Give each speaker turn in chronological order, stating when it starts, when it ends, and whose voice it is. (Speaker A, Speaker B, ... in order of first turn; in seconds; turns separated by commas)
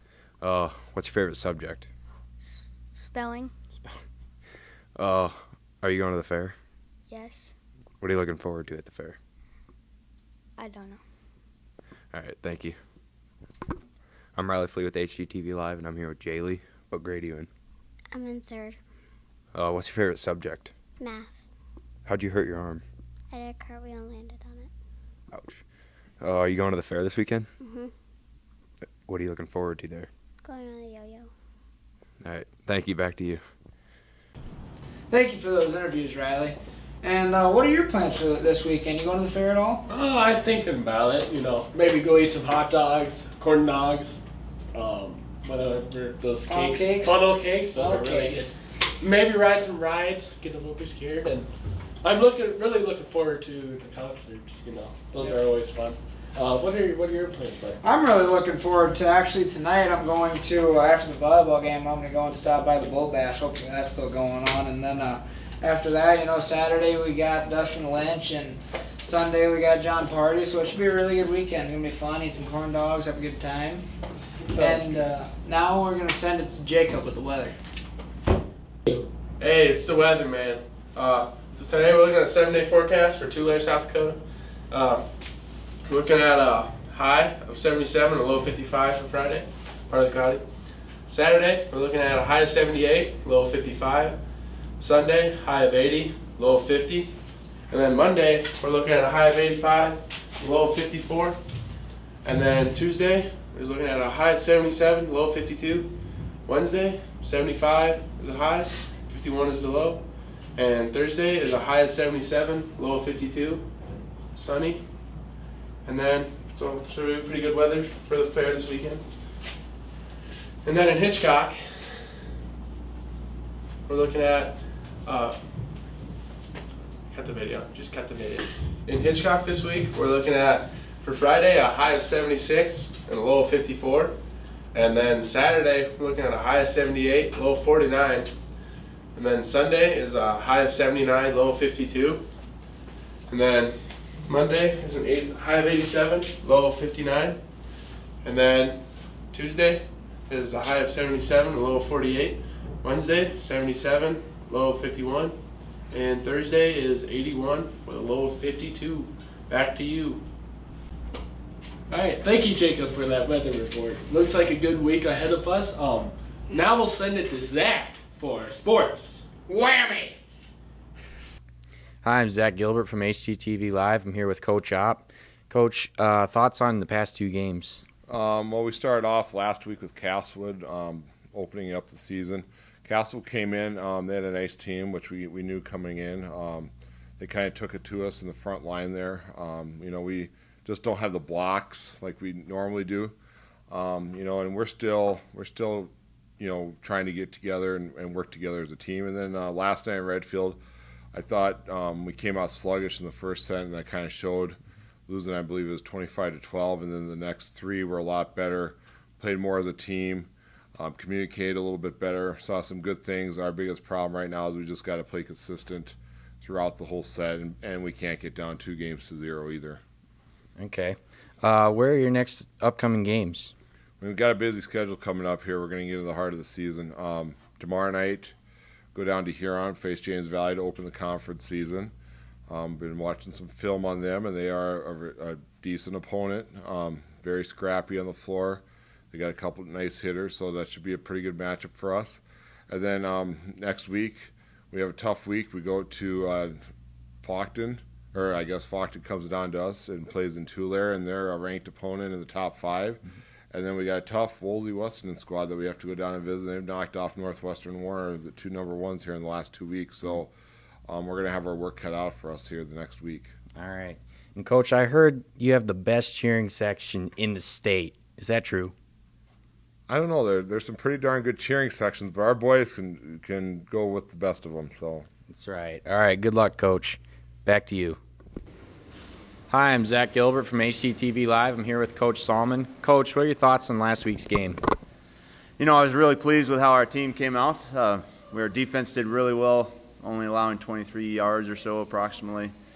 Speaker A: 0.4-1.9, Speaker B: 2.4-3.5, Speaker A: 3.7-4.0, Speaker A: 4.9-6.5, Speaker B: 7.1-7.5, Speaker A: 8.0-9.2, Speaker B: 10.6-11.0, Speaker A: 12.1-12.8, Speaker A: 14.3-17.5, Speaker B: 18.1-18.8, Speaker A: 19.5-20.7, Speaker B: 21.0-21.4, Speaker A: 22.1-22.8, Speaker B: 23.3-24.7, Speaker A: 25.3-25.6, Speaker A: 26.2-27.5, Speaker B: 27.6-27.9, Speaker A: 29.0-30.1, Speaker B: 30.4-31.3, Speaker A: 32.2-33.4, Speaker C: 35.1-39.9, Speaker D: 39.9-44.2, Speaker D: 44.7-51.5, Speaker C: 46.5-48.5, Speaker D: 52.0-57.8, Speaker C: 57.8-73.9, Speaker C: 74.5-77.6, Speaker D: 74.5-75.0, Speaker E: 79.4-84.2, Speaker E: 84.7-85.0, Speaker E: 85.9-90.4, Speaker E: 91.1-94.2, Speaker E: 94.8-97.1, Speaker E: 97.7-101.4, Speaker E: 102.2-105.9, Speaker E: 106.5-110.0, Speaker E: 110.5-113.7, Speaker E: 114.3-114.9, Speaker E: 115.8-119.0, Speaker E: 120.6-122.1, Speaker E: 123.9-125.4, Speaker E: 127.1-134.1, Speaker E: 134.7-138.3, Speaker E: 139.1-142.2, Speaker E: 143.3-147.4, Speaker E: 148.2-155.4, Speaker E: 155.9-160.2, Speaker D: 161.9-169.2, Speaker C: 169.5-170.2, Speaker F: 172.0-177.8, Speaker G: 178.1-193.2, Speaker G: 193.7-200.6, Speaker G: 201.1-219.8, Speaker F: 220.6-223.5, Speaker G: 224.0-228.3, Speaker G: 228.9-231.9, Speaker G: 232.5-246.6, Speaker G: 247.2-260.3, Speaker G: 260.9-263.3, Speaker F: 263.6-268.7, Speaker G: 269.9-275.1, Speaker F: 275.3-278.0, Speaker F: 279.5-284.6, Speaker H: 285.6-292.5